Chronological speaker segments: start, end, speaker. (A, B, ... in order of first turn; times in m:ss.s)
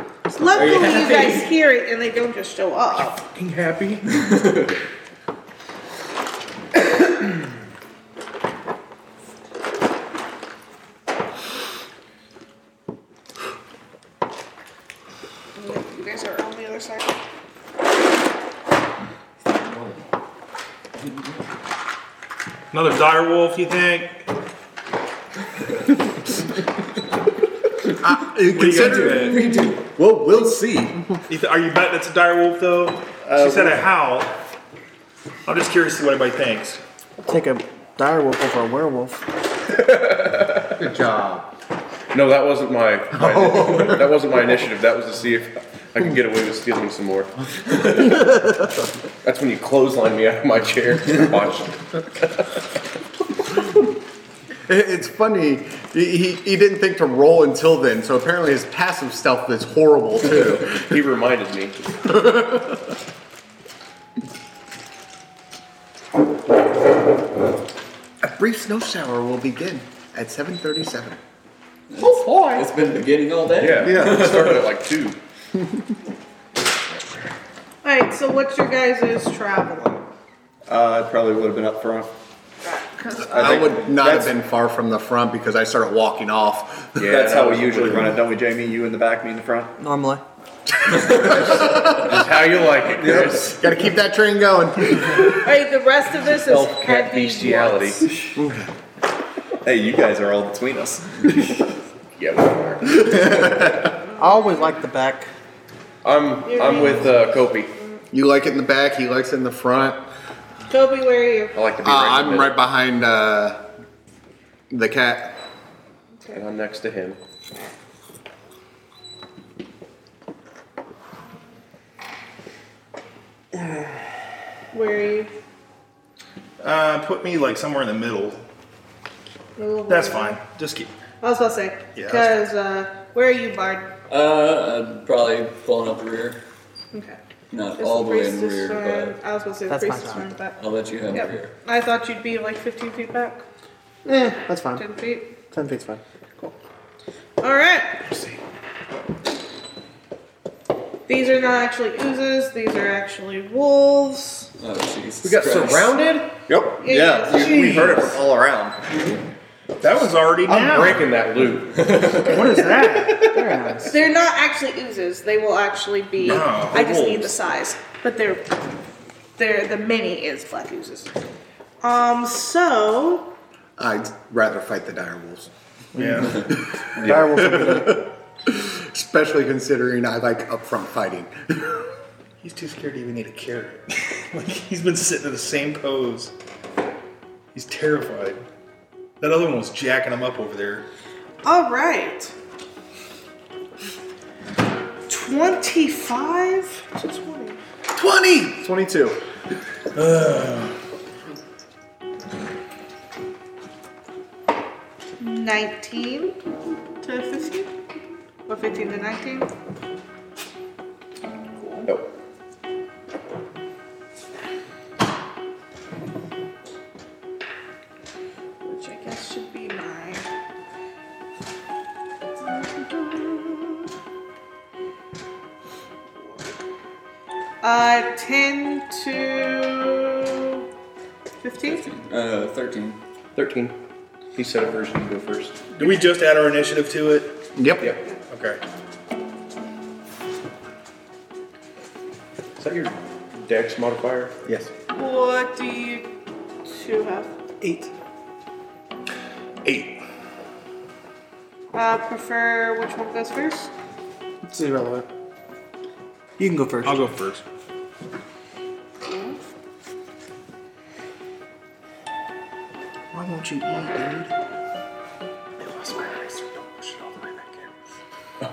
0:00.3-0:03.3 A
0:00.5-0:01.5 B
0:03.3-0:04.3 C
0:04.2-0:04.7 B
0:15.6-0:17.1 A
0:22.7-0:24.2 D
0:28.0-0:29.4 E
0:28.5-0:29.5 D
0:28.5-0:29.8 B
0:29.9-0:31.0 F
0:31.3-0:34.3 D
0:35.5-0:36.8 D
0:37.2-0:39.2 G
0:39.7-0:40.8 C
0:40.8-0:41.5 E
0:42.1-0:48.5 C
0:43.2-0:44.0 E
0:49.2-0:52.3 C
0:54.7-1:00.9 E
1:00.2-1:01.8 C
1:08.2-1:11.2 E
1:11.9-1:14.6 B
1:13.6-1:15.2 C
1:13.8-1:14.4 E
1:17.8-1:20.0 A
1:20.7-1:22.1 F
1:22.6-1:23.6 A
1:23.2-1:24.3 F
1:23.3-1:27.1 E
1:27.0-1:28.2 C
1:27.0-1:29.7 F
1:29.8-1:30.2 G
1:31.0-1:31.9 E
1:31.1-1:33.6 C
1:33.1-1:35.4 E
1:35.3-1:38.1 A
1:36.4-1:38.1 C
1:38.4-1:38.7 E
1:39.6-1:41.6 F
1:42.2-1:43.5 C
1:44.2-1:45.3 G
1:46.0-1:47.7 C
1:46.5-1:47.3 A
1:48.1-1:50.0 E
1:50.7-1:51.6 A
1:51.5-1:52.6 C
1:51.8-1:53.6 E
1:54.7-1:55.4 E
1:56.3-1:57.2 C
2:04.7-2:05.3 A
2:06.6-2:08.4 D
2:09.6-2:10.4 A
2:09.9-2:10.9 D
2:11.2-2:13.9 A
2:12.0-2:12.5 D
2:14.1-2:16.4 B
2:16.9-2:17.2 A
2:17.5-2:19.2 B
2:17.8-2:20.6 A
2:19.7-2:20.4 G
2:20.6-2:21.5 B
2:21.1-2:23.4 A
2:24.0-2:24.8 G
2:24.8-2:25.4 A
2:25.5-2:26.0 G
2:27.4-2:28.0 A
2:28.1-2:28.4 C
2:31.1-2:34.5 A
2:34.6-2:36.0 B
2:35.2-2:36.3 C
2:36.5-2:38.8 F
2:36.8-2:37.9 A
2:37.4-2:38.1 D
2:39.8-2:41.1 D
2:40.5-2:43.5 C
2:41.8-2:42.4 B
2:42.2-2:43.3 D
2:42.5-2:44.0 G
2:43.9-2:48.6 A
2:46.2-2:47.4 D
2:49.4-2:51.1 A
2:51.8-2:53.3 A
2:53.8-2:55.5 E
2:56.0-2:56.5 D
2:56.0-2:56.3 G
2:57.0-2:57.4 C
2:57.0-2:58.0 G
2:57.1-2:57.6 E
2:58.5-3:01.8 E
3:02.4-3:06.3 D
3:07.5-3:08.4 D
3:09.2-3:10.8 D
3:11.4-3:12.3 A
3:15.1-3:17.6 A
3:18.0-3:19.2 E
3:20.0-3:20.7 D
3:25.2-3:26.4 A
3:27.0-3:27.7 A
3:28.5-3:29.5 A
3:31.6-3:31.9 A
3:38.6-3:40.3 A
3:42.4-3:43.8 A
3:47.6-3:50.6 A
3:51.4-3:51.8 A
3:51.6-3:53.0 B
3:53.4-3:53.8 C
3:54.4-3:55.6 C
3:55.8-3:57.4 D
3:57.6-3:57.8 E
3:58.3-3:58.6 D
4:02.6-4:04.4 C
4:04.9-4:06.1 A
4:06.6-4:07.4 A
4:07.6-4:07.9 G
4:11.7-4:13.7 A
4:14.4-4:15.1 G
4:16.4-4:17.1 G
4:16.8-4:17.4 D
4:19.0-4:19.4 A
4:23.1-4:24.3 G
4:25.6-4:27.6 G